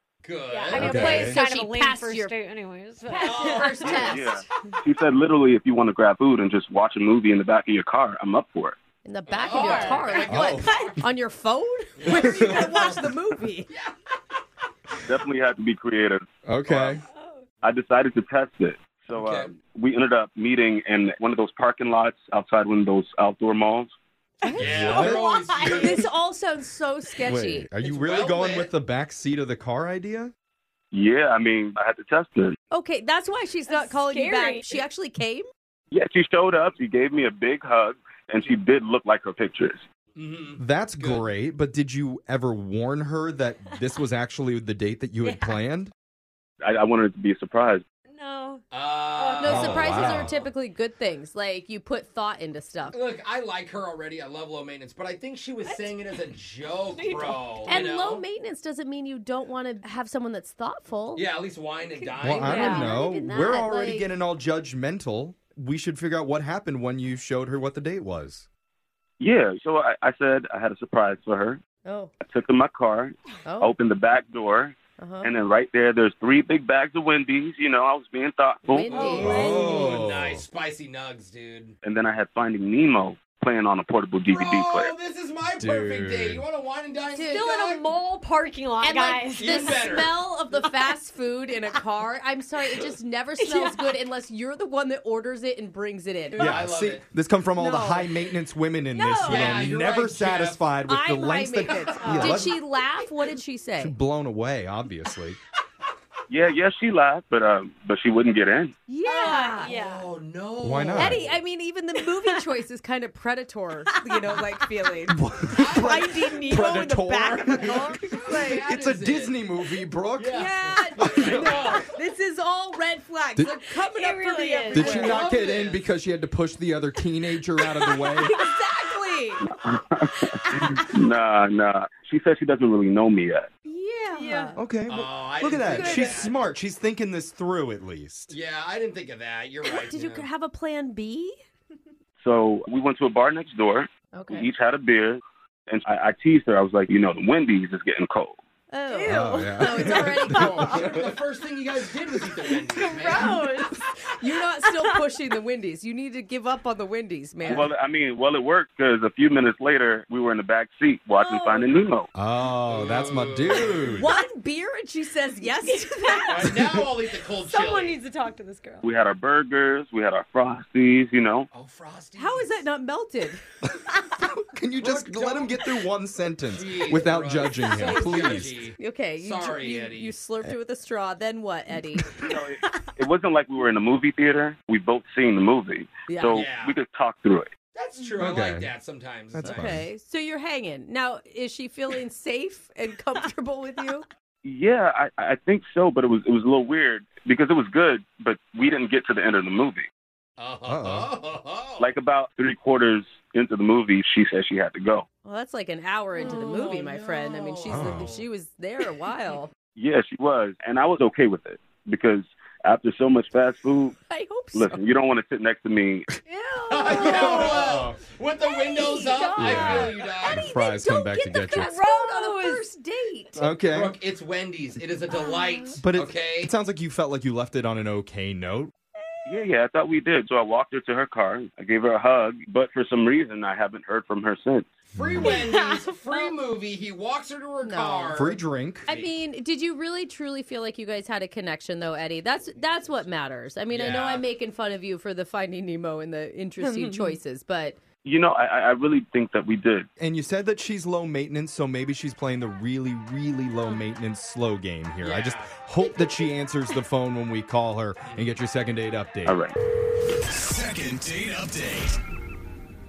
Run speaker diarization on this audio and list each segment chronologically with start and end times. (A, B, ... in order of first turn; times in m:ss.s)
0:00.2-0:01.3 A
0:00.5-0:04.2 B
0:00.7-0:01.4 C
0:00.8-0:02.3 D
0:03.1-0:04.1 A
0:03.2-0:04.4 D
0:03.9-0:08.8 E
0:09.0-0:13.7 D
0:09.3-0:11.1 A
0:09.5-0:09.8 E
0:09.7-0:10.0 B
0:10.3-0:10.7 C
0:12.0-0:13.0 A
0:12.1-0:12.6 C
0:15.0-0:16.3 E
0:16.5-0:17.0 C
0:16.7-0:17.0 A
0:17.2-0:17.4 B
0:17.6-0:23.9 E
0:19.1-0:19.5 A
0:24.4-0:25.1 D
0:24.5-0:26.1 A
0:24.5-0:25.8 C
0:24.9-0:26.0 B
0:25.6-0:27.7 D
0:27.2-0:30.3 C
0:27.8-0:28.7 A
0:30.9-0:32.6 E
0:32.7-0:35.5 D
0:33.7-0:34.8 B
0:35.9-0:39.8 E
0:40.2-0:41.3 A
0:40.6-0:45.9 C
0:45.2-0:45.6 B
0:46.6-0:47.8 E
0:48.1-0:48.6 B
0:48.7-0:50.5 A
0:49.1-0:50.0 B
0:49.4-0:53.0 D
0:49.4-0:50.3 C
0:52.9-0:58.2 A
0:55.6-0:55.9 B
0:56.9-0:57.8 B
0:57.6-1:01.3 D
1:01.1-1:02.9 A
1:02.2-1:08.5 C
1:02.3-1:04.1 D
1:02.4-1:03.0 B
1:09.2-1:11.6 E
1:11.8-1:12.1 D
1:12.2-1:19.5 E
1:13.4-1:13.7 D
1:15.0-1:15.3 D
1:18.7-1:19.5 D
1:18.9-1:21.8 A
1:19.1-1:20.5 C
1:19.2-1:19.6 B
1:21.8-1:24.9 E
1:24.3-1:27.9 A
1:25.6-1:26.5 C
1:27.2-1:29.9 B
1:28.8-1:36.6 D
1:29.4-1:30.1 A
1:33.4-1:33.9 B
1:36.4-1:37.0 A
1:36.4-1:42.5 C
1:37.6-1:38.0 B
1:37.6-1:38.0 D
1:38.9-1:39.7 D
1:39.2-1:40.6 A
1:40.9-1:44.0 D
1:41.8-1:42.3 A
1:42.0-1:42.5 B
1:43.8-1:45.4 C
1:46.3-1:48.7 E
1:48.9-1:49.7 D
1:49.0-1:50.1 B
1:49.6-1:51.4 A
1:50.6-1:51.3 C
1:50.9-1:58.6 D
1:54.0-1:54.2 B
1:55.1-2:00.4 C
1:55.6-1:56.0 A
1:57.6-1:59.4 A
2:00.2-2:01.8 A
2:00.3-2:05.2 D
2:01.0-2:01.8 C
2:03.8-2:05.2 B
2:04.7-2:08.4 C
2:05.0-2:05.9 A
2:07.8-2:08.1 B
2:08.2-2:09.4 D
2:09.4-2:13.5 E
2:10.3-2:10.9 B
2:13.7-2:14.6 D
2:14.1-2:14.6 B
2:14.6-2:18.4 C
2:14.9-2:16.4 A
2:15.7-2:16.2 D
2:18.3-2:20.3 A
2:19.6-2:21.3 D
2:22.2-2:28.4 E
2:24.1-2:24.5 D
2:28.7-2:31.0 D
2:28.9-2:30.6 B
2:29.1-2:31.0 C
2:30.3-2:33.4 A
2:32.7-2:33.8 B
2:32.8-2:37.7 D
2:34.6-2:35.0 B
2:37.5-2:42.1 E
2:41.1-2:41.7 B
2:42.2-2:44.1 C
2:42.7-2:44.0 A
2:43.9-2:46.7 D
2:45.6-2:46.8 B
2:46.2-2:48.0 A
2:47.4-2:48.8 B
2:48.8-2:51.5 E
2:51.5-2:52.6 A
2:52.2-2:53.4 D
2:53.7-2:58.6 C
2:54.8-2:55.7 A
2:56.5-3:00.2 A
2:57.8-3:02.1 D
3:02.2-3:07.5 E
3:06.1-3:06.4 D
3:06.3-3:06.8 A
3:07.7-3:09.8 A
3:08.2-3:08.7 C
3:09.3-3:09.8 C
3:09.4-3:14.1 D
3:14.4-3:19.9 E
3:20.4-3:21.9 A
3:20.7-3:21.1 C
3:21.8-3:25.0 E
3:25.2-3:29.5 D
3:26.2-3:28.2 A
3:27.7-3:28.2 C
3:29.8-3:34.0 E
3:34.1-3:34.8 D
3:34.6-3:36.1 E
3:36.2-3:37.7 B
3:36.7-3:40.5 A
3:36.9-3:38.0 C
3:38.4-3:39.6 B
3:38.8-3:43.5 D
3:39.4-3:41.8 C
3:41.5-3:42.6 B
3:43.4-3:44.0 C
3:43.7-3:46.5 A
3:45.1-3:45.7 B
3:45.8-3:48.7 C
3:49.3-3:54.7 E
3:54.9-3:59.1 A
3:55.0-3:55.4 C
3:55.2-3:56.2 B
3:57.6-3:58.2 D
3:58.1-3:58.9 C
3:58.9-4:07.8 D
4:03.7-4:04.3 A
4:06.6-4:07.2 B
4:08.0-4:09.9 E
4:10.0-4:19.4 C
4:15.0-4:15.5 A
4:18.0-4:18.4 A
4:19.3-4:19.5 E
4:20.3-4:22.0 C